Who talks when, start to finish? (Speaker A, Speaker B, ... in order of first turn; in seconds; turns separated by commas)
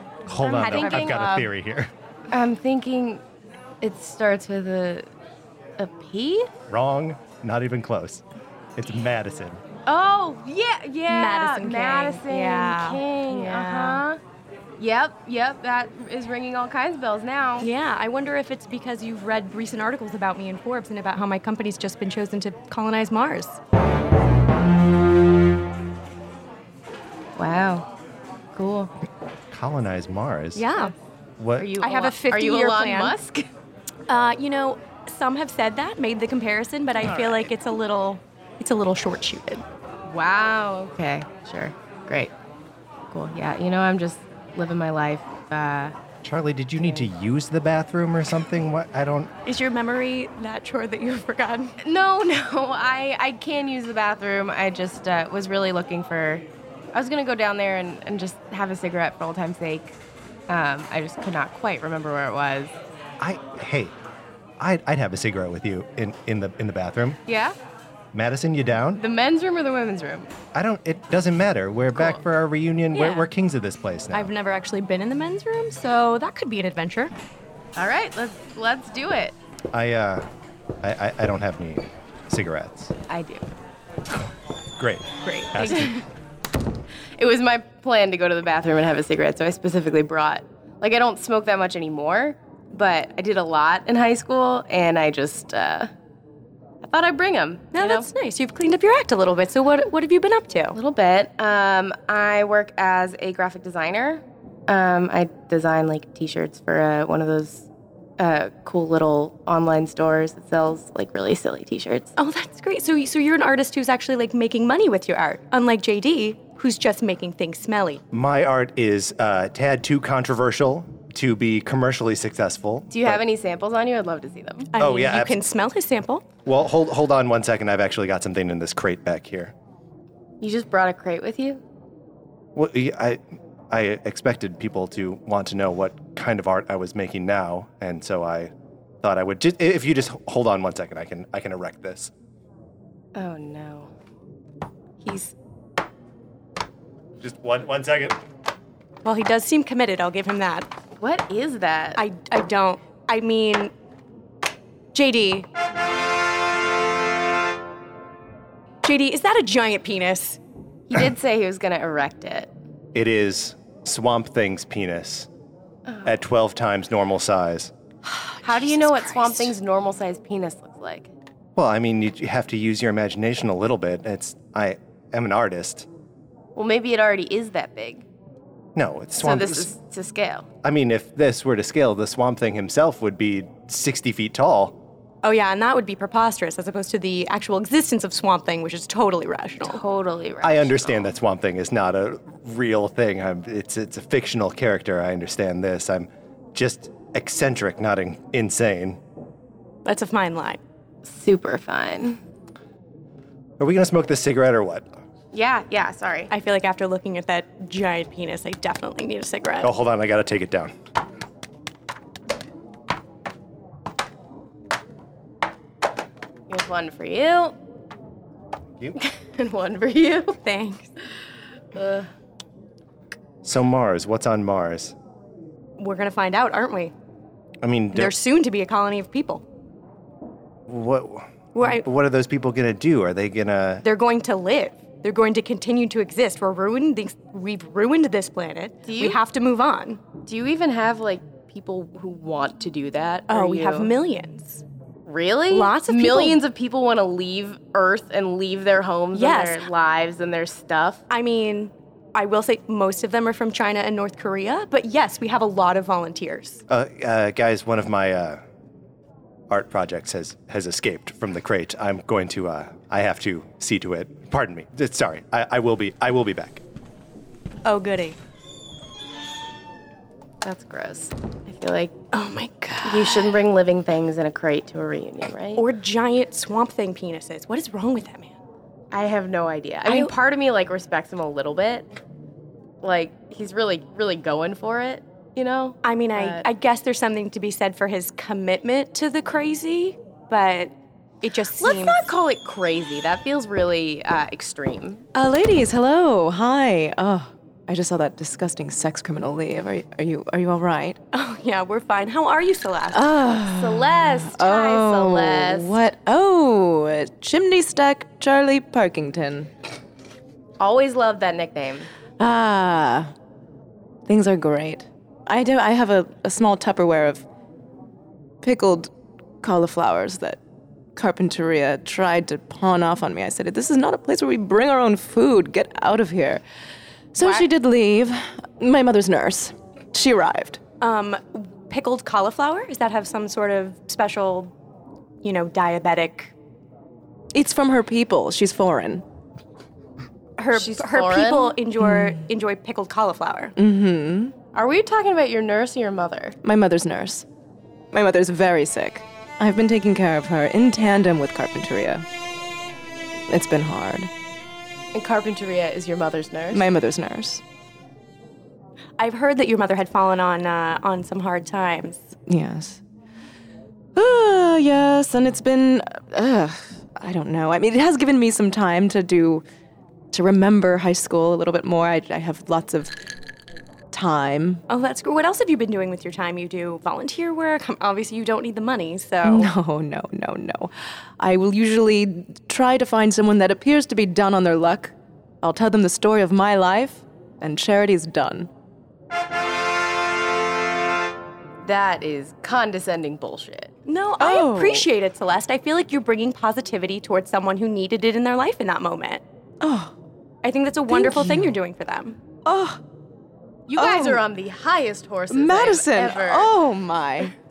Speaker A: 0.3-1.9, Speaker B: 0.4-1.5, Speaker C: 0.6-1.3, Speaker C: 2.3-3.2, Speaker C: 3.8-5.1, Speaker C: 5.8-6.5, Speaker A: 6.7-8.2, Speaker A: 8.8-9.6, Speaker C: 9.9-14.2, Speaker B: 11.1-14.0, Speaker C: 14.8-17.7, Speaker B: 17.6-23.6, Speaker C: 27.4-27.9, Speaker C: 28.5-28.9, Speaker A: 29.5-30.7, Speaker B: 30.6-30.9, Speaker A: 31.4-31.7, Speaker C: 31.6-33.5, Speaker B: 31.8-33.2, Speaker B: 34.1-39.6, Speaker C: 40.1-42.3, Speaker C: 43.1-46.0, Speaker A: 46.2-49.3, Speaker B: 49.5-51.8, Speaker C: 51.8-60.0, Speaker C: 60.5-62.8, Speaker A: 63.2-64.0, Speaker A: 64.6-67.2, Speaker C: 67.3-67.6, Speaker A: 68.1-69.0, Speaker C: 68.9-70.3, Speaker A: 70.5-74.3, Speaker B: 72.9-73.3, Speaker B: 74.1-77.1, Speaker C: 77.8-79.3, Speaker A: 79.7-80.3, Speaker A: 80.8-82.9, Speaker C: 83.1-83.5, Speaker A: 84.8-85.9, Speaker B: 85.2-86.0, Speaker C: 87.2-95.9, Speaker C: 96.8-98.1, Speaker B: 97.7-100.8, Speaker C: 100.7-107.7, Speaker C: 108.2-112.1, Speaker B: 112.2-118.0, Speaker A: 118.1-123.2, Speaker C: 122.9-124.7, Speaker B: 124.7-126.2, Speaker A: 124.8-125.4, Speaker A: 126.5-129.5, Speaker C: 130.4-131.6, Speaker A: 132.6-142.1, Speaker C: 143.2-143.9, Speaker C: 145.0-145.3, Speaker A: 147.2-148.2, Speaker B: 149.1-150.7, Speaker C: 151.0-152.0, Speaker B: 152.0-153.7, Speaker B: 154.9-155.5, Speaker B: 158.8-160.4, Speaker C: 160.9-162.5, Speaker A: 162.9-165.3, Speaker A: 166.1-167.7, Speaker B: 168.1-169.6, Speaker C: 168.4-171.1, Speaker A: 171.6-175.9, Speaker C: 176.6-178.1, Speaker A: 178.8-179.7, Speaker C: 179.2-180.5, Speaker A: 180.6-184.8, Speaker B: 185.2-189.8, Speaker C: 189.6-191.1, Speaker A: 190.4-199.0, Speaker B: 199.8-200.6, Speaker C: 201.1-202.2, Speaker A: 203.6-204.9, Speaker C: 205.3-206.3, Speaker B: 206.3-209.7, Speaker A: 209.6-210.7, Speaker C: 216.5-217.6, Speaker C: 218.9-220.4, Speaker B: 220.4-220.9, Speaker C: 221.7-222.1, Speaker A: 223.4-224.9, Speaker B: 225.8-226.9, Speaker A: 227.6-228.1, Speaker B: 227.9-229.4, Speaker A: 230.7-233.8, Speaker B: 231.5-231.9, Speaker B: 233.8-240.0, Speaker C: 238.9-239.2, Speaker C: 240.3-243.9, Speaker B: 243.3-244.6, Speaker C: 245.1-251.0, Speaker B: 245.5-246.4, Speaker B: 249.1-249.7, Speaker B: 251.1-256.6, Speaker A: 256.7-258.4, Speaker A: 259.5-266.6, Speaker B: 267.6-268.2, Speaker C: 270.4-271.9, Speaker B: 272.1-273.4, Speaker C: 272.8-275.6, Speaker B: 275.6-278.4, Speaker C: 278.9-281.9, Speaker B: 279.9-280.1, Speaker C: 282.8-286.4, Speaker B: 285.8-292.1, Speaker C: 291.6-295.0, Speaker D: 295.1-301.0, Speaker B: 301.1-303.1, Speaker D: 302.9-309.5, Speaker C: 303.5-305.8, Speaker C: 310.6-311.9, Speaker D: 312.2-313.1, Speaker D: 314.1-317.3, Speaker D: 318.4-318.9, Speaker D: 319.4-320.4, Speaker D: 321.0-326.4, Speaker D: 327.1-330.6, Speaker B: 330.8-334.5, Speaker B: 335.2-336.3, Speaker D: 337.3-339.1, Speaker B: 340.4-343.5, Speaker C: 340.5-341.6, Speaker D: 341.8-342.2, Speaker D: 343.6-344.4, Speaker C: 344.5-346.4, Speaker D: 346.4-347.3, Speaker D: 347.9-352.1, Speaker D: 353.3-354.1, Speaker C: 354.9-356.7, Speaker D: 356.5-357.4, Speaker B: 359.0-362.1, Speaker D: 362.3-362.8, Speaker D: 364.0-369.4, Speaker D: 370.1-372.9, Speaker D: 373.9-374.6, Speaker B: 374.7-379.5, Speaker D: 379.2-388.5, Speaker C: 391.6-393.7, Speaker B: 393.9-399.2, Speaker D: 394.2-394.9, Speaker D: 399.6-399.9, Speaker B: 400.4-402.2, Speaker D: 400.9-401.6, Speaker D: 402.4-402.8, Speaker C: 403.7-406.5, Speaker D: 403.7-404.2, Speaker D: 405.3-407.3